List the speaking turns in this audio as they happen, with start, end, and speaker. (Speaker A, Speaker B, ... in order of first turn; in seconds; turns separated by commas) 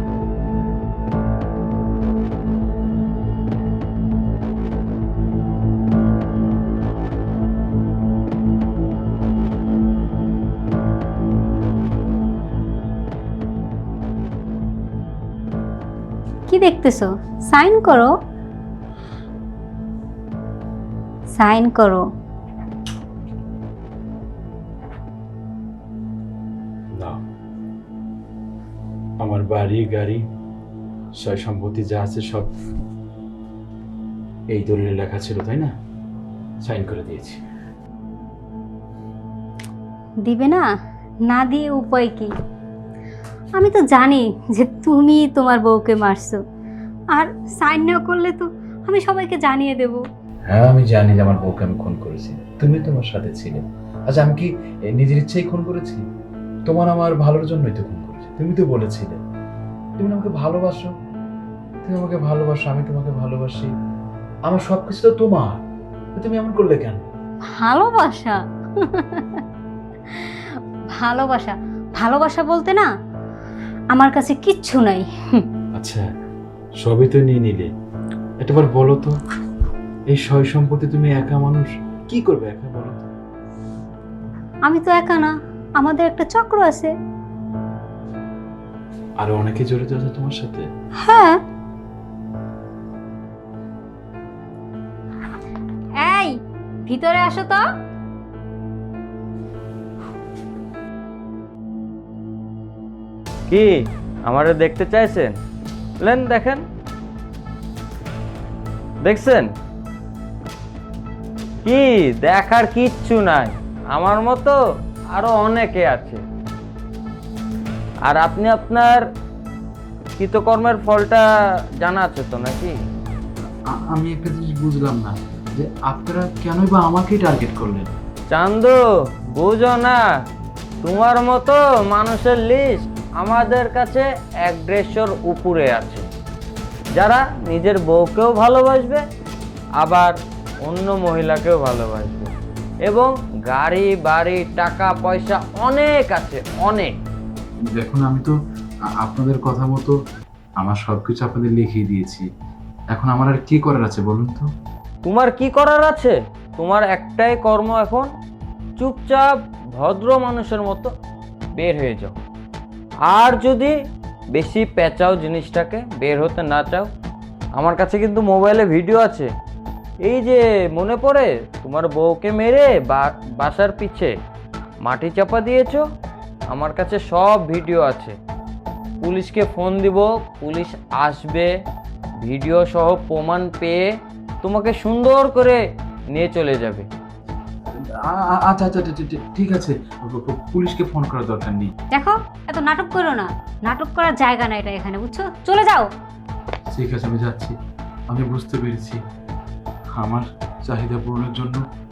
Speaker A: 16.5-18.1, Speaker A: 21.3-22.1, Speaker B: 29.2-30.2, Speaker B: 31.2-32.5, Speaker B: 34.5-35.7, Speaker B: 36.6-37.4, Speaker A: 40.2-40.7, Speaker A: 41.3-42.3, Speaker A: 43.6-46.4, Speaker A: 47.1-50.0, Speaker B: 50.5-56.0, Speaker B: 56.7-59.2, Speaker B: 60.0-60.9, Speaker B: 61.8-63.7, Speaker B: 64.5-65.6, Speaker B: 66.2-67.1, Speaker A: 67.6-69.4, Speaker A: 71.0-72.9, Speaker A: 73.9-75.5, Speaker B: 75.8-76.0, Speaker B: 76.8-77.7, Speaker B: 78.4-79.1, Speaker B: 80.1-83.1, Speaker A: 84.7-86.9, Speaker B: 89.2-90.7, Speaker A: 91.0-91.4, Speaker A: 96.0-97.7, Speaker C: 103.5-105.3, Speaker C: 106.0-106.6, Speaker C: 109.0-109.5, Speaker C: 111.7-114.6, Speaker C: 115.1-116.2, Speaker C: 118.1-119.0, Speaker C: 120.2-121.2, Speaker C: 121.8-122.8, Speaker B: 123.7-127.9, Speaker C: 128.3-128.8, Speaker C: 129.4-130.1, Speaker C: 130.8-136.1, Speaker C: 137.0-139.0, Speaker C: 139.8-142.3, Speaker C: 142.9-146.9, Speaker B: 147.8-148.3, Speaker B: 149.0-149.9, Speaker B: 150.6-152.2, Speaker B: 152.9-154.5, Speaker C: 155.1-158.1, Speaker C: 158.8-160.9, Speaker C: 161.6-162.2, Speaker C: 163.1-163.8, Speaker C: 164.3-166.9, Speaker C: 167.6-169.3, Speaker C: 170.0-174.1, Speaker C: 174.8-175.8, Speaker C: 176.5-178.2, Speaker C: 179.0-181.5, Speaker C: 182.2-183.9, Speaker C: 184.4-185.6, Speaker C: 186.1-186.9, Speaker B: 187.8-191.7, Speaker A: 191.9-195.9, Speaker B: 196.7-197.6, Speaker B: 198.1-199.0, Speaker B: 200.0-201.6